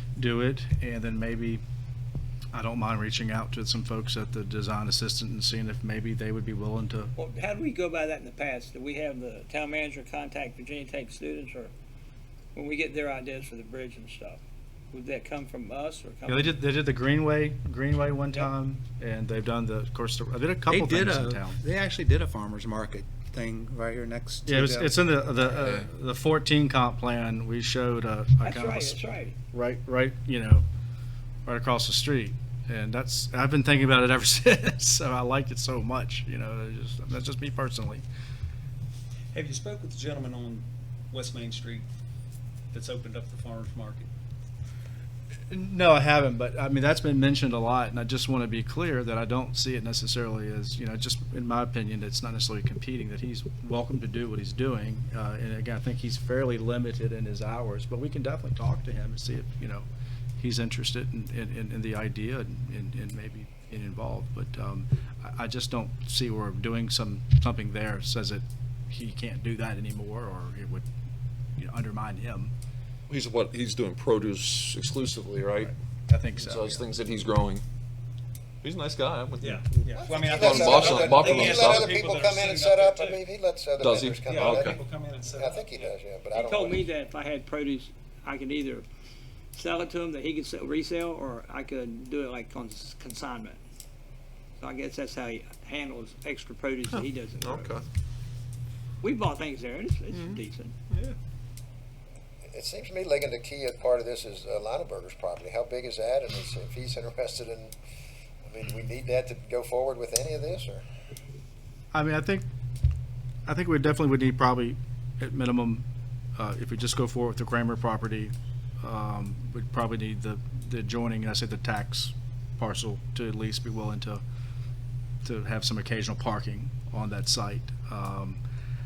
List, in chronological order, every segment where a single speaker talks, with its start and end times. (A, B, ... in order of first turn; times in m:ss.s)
0:00.2-0:01.6 A
0:02.5-0:07.1 A
0:07.2-0:11.7 B
0:12.5-0:14.4 B
0:14.9-0:16.6 B
0:16.3-0:21.6 A
0:20.7-0:25.1 C
0:24.4-0:29.0 A
0:28.4-0:29.3 B
0:29.5-0:30.6 A
0:31.4-0:38.0 A
0:39.3-0:41.8 D
0:42.7-0:44.1 D
0:45.5-0:59.8 A
1:00.4-1:10.8 A
1:11.6-1:12.5 A
1:13.1-1:15.7 E
1:16.1-1:16.8 A
1:16.4-1:17.6 E
1:18.6-1:19.6 E
1:19.4-1:23.2 D
1:20.0-1:24.8 F
1:20.4-1:21.9 E
1:23.8-1:24.8 E
1:24.3-1:25.9 D
1:25.3-1:26.9 F
1:26.3-1:28.8 B
1:29.5-1:33.6 B
1:34.6-1:37.7 B
1:36.9-1:37.8 E
1:39.0-1:40.7 B
1:40.1-1:40.4 E
1:42.5-1:47.7 F
1:48.4-1:50.8 F
1:51.9-1:52.4 A
1:53.5-1:55.8 A
1:56.4-2:04.2 A
2:05.2-2:08.4 A